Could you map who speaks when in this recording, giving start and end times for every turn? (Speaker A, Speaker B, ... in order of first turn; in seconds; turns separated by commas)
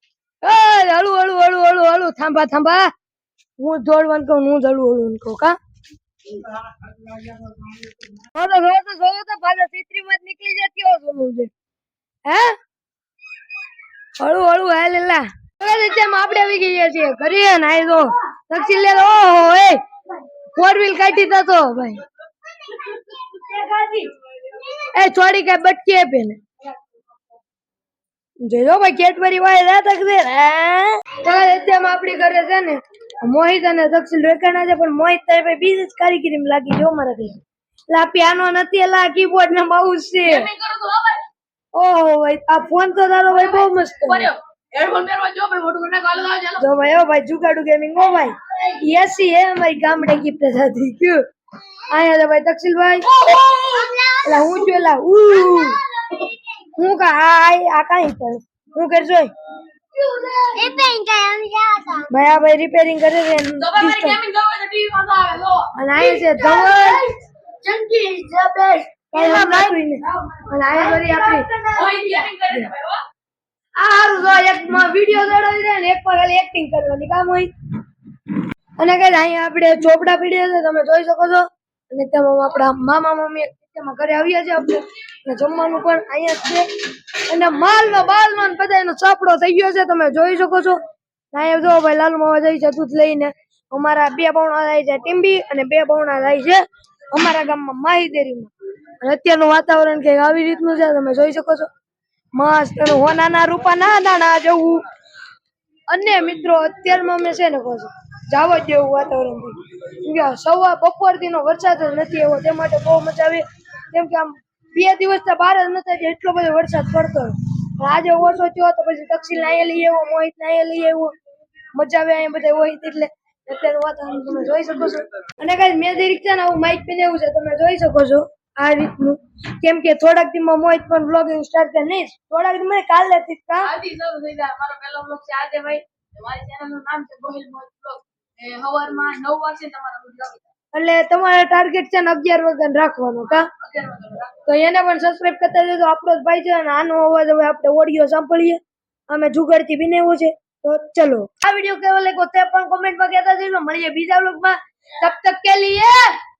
Speaker A: 0.4-2.9, Speaker A: 3.6-5.6, Speaker A: 8.1-11.5, Speaker A: 12.3-12.6, Speaker A: 14.2-19.8, Speaker A: 20.5-22.0, Speaker B: 22.6-23.0, Speaker A: 23.1-24.1, Speaker B: 24.5-24.9, Speaker A: 24.9-26.4, Speaker A: 28.4-37.4, Speaker A: 37.9-40.5, Speaker C: 40.3-41.2, Speaker A: 41.8-44.3, Speaker C: 43.3-46.6, Speaker A: 46.6-51.2, Speaker A: 51.9-53.1, Speaker B: 53.2-54.7, Speaker C: 53.5-53.8, Speaker A: 54.2-55.8, Speaker B: 55.3-56.4, Speaker A: 56.8-59.3, Speaker C: 60.0-60.7, Speaker B: 60.5-62.1, Speaker A: 62.1-64.2, Speaker C: 63.6-73.0, Speaker A: 65.8-67.0, Speaker A: 69.1-71.5, Speaker A: 72.2-72.7, Speaker A: 73.8-77.5, Speaker A: 78.8-86.7, Speaker A: 87.2-90.8, Speaker A: 91.3-101.7, Speaker A: 102.3-104.8, Speaker A: 105.9-121.1, Speaker A: 121.8-133.7, Speaker C: 133.6-140.5, Speaker A: 140.7-143.5, Speaker C: 143.6-144.3, Speaker A: 144.4-156.1